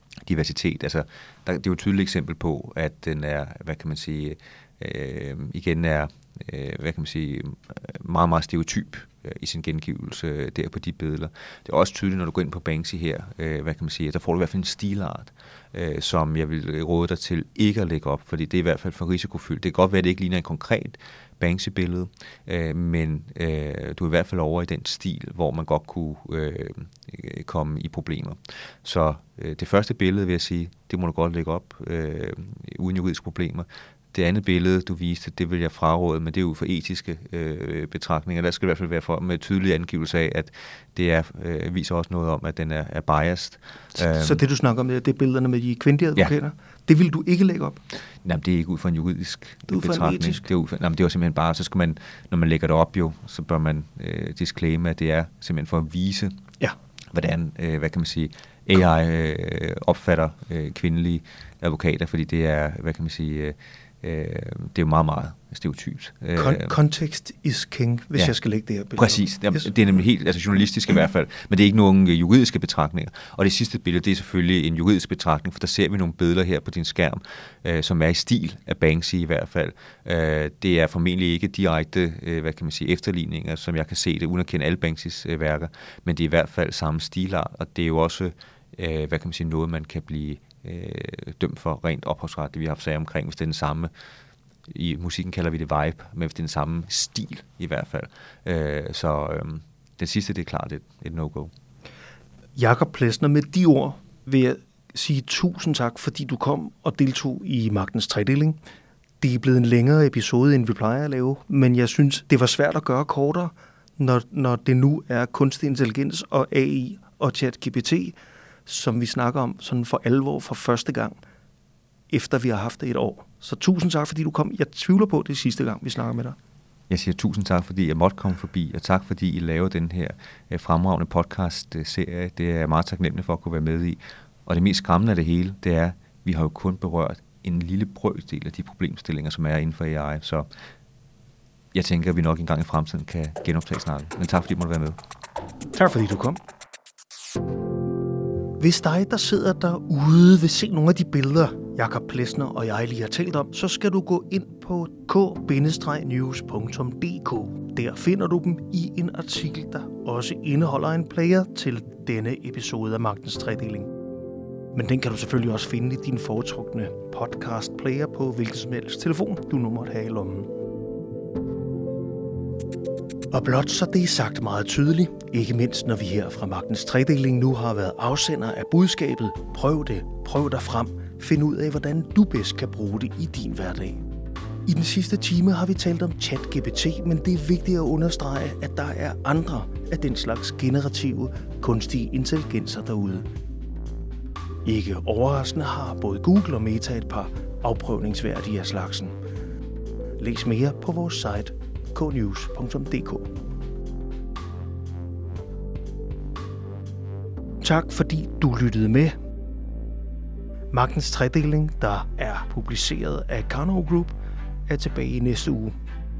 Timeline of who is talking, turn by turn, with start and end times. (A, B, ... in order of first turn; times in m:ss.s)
0:00.2-0:44.4 A
0:44.0-0:47.8 B
0:48.2-0:56.4 A
0:49.7-0:50.4 B
0:57.1-1:06.8 A
1:06.4-1:09.7 B
1:09.0-1:33.9 A
1:34.7-1:41.5 A
1:42.6-1:48.6 B
1:49.2-1:58.1 B
1:58.6-2:01.2 B
2:02.1-2:06.4 B
2:06.9-2:20.5 A
2:21.7-2:25.0 A
2:25.7-2:26.4 B
2:28.6-2:43.9 B
2:44.7-2:50.5 B
2:53.3-3:04.0 B
3:04.6-3:13.2 B
3:14.6-3:19.1 B
3:20.2-3:23.3 B
3:27.6-3:29.1 B
3:30.7-3:34.1 B
3:34.7-3:35.7 B